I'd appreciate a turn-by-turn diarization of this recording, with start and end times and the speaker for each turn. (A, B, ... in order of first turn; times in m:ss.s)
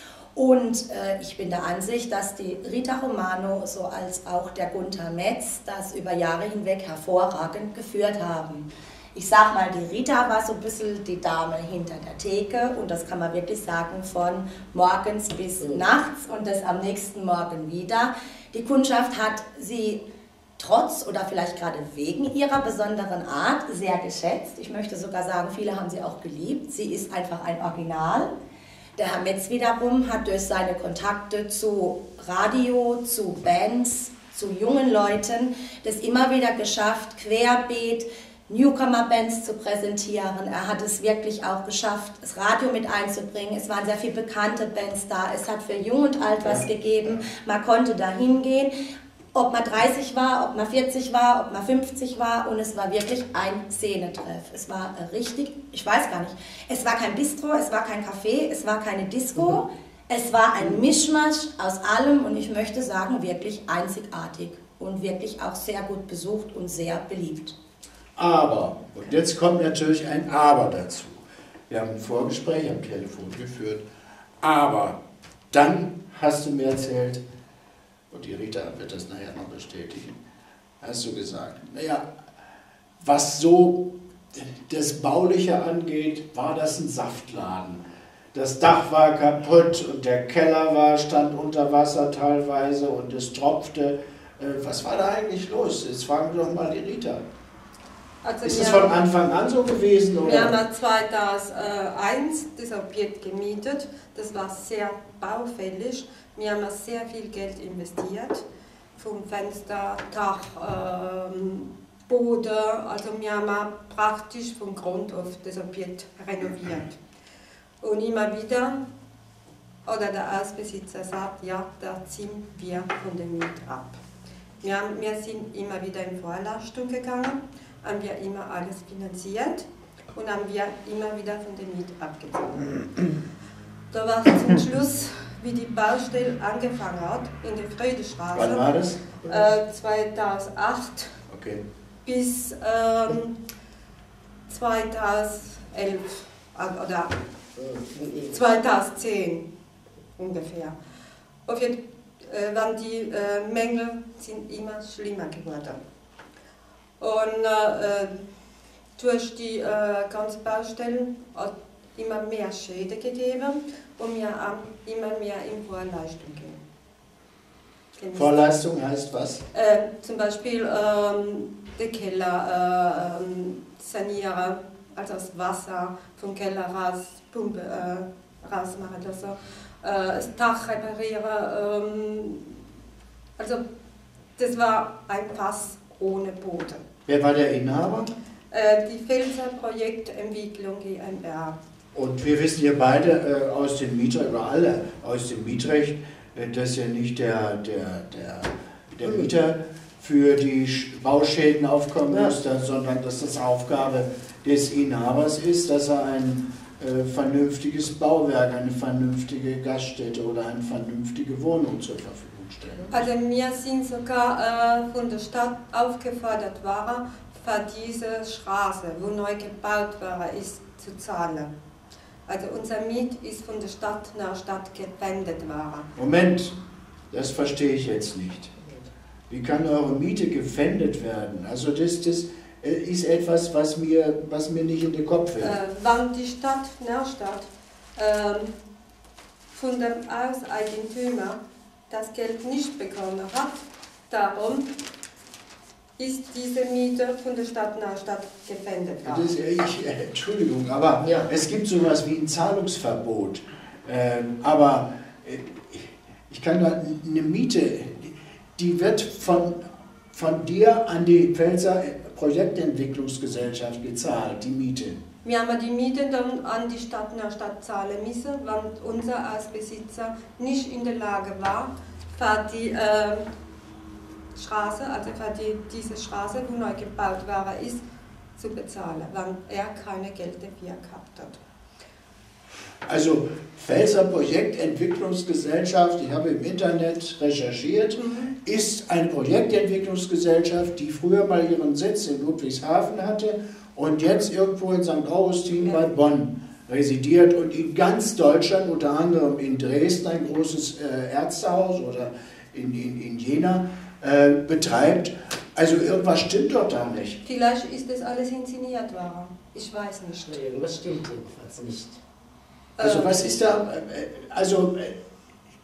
0:00.4-0:20.0 A
0:20.6-0:28.3 A
0:29.0-0:48.7 A
0:49.3-1:07.6 A
1:08.2-1:13.8 B
1:14.4-1:15.0 B
1:15.5-1:17.2 B
1:18.1-1:20.2 B
1:20.8-1:22.1 B
1:23.0-1:37.2 B
1:38.2-1:38.9 C
1:38.4-1:40.6 B
1:40.2-1:48.5 C
1:49.0-1:57.0 C
1:57.8-1:58.9 C
1:59.8-2:04.0 C
2:04.6-2:13.1 C
2:13.9-2:18.7 C
2:18.3-2:19.0 B
2:19.2-2:21.2 C
2:21.3-2:21.6 B
2:22.0-2:23.4 C
2:24.5-2:27.2 C
2:27.6-2:28.4 D
2:28.3-2:29.5 C
2:30.2-2:30.8 C
2:31.5-2:35.8 C
2:37.0-2:38.2 C
2:39.0-2:46.6 C
2:48.0-2:48.4 C
2:48.1-2:49.4 B
2:49.5-3:02.6 C
3:04.4-3:06.8 C
3:07.1-3:08.1 B
3:08.5-3:11.6 C
3:11.9-3:33.1 B
3:32.9-3:41.5 C
3:42.3-3:45.9 C
3:46.0-3:46.6 B
3:47.1-3:48.5 B
3:49.3-3:55.6 B
3:55.4-3:58.5 C
3:59.5-4:04.7 C
4:06.0-4:09.3 C
4:09.0-4:19.6 B
4:11.0-4:11.3 D
4:20.1-4:25.0 B
4:25.2-4:33.3 C
4:34.4-4:37.8 C
4:38.4-4:41.4 C
4:42.9-5:07.2 B
4:48.0-4:48.3 C
5:07.2-5:10.4 C
5:10.3-5:12.0 D
5:12.8-5:13.2 C
5:12.8-5:15.0 B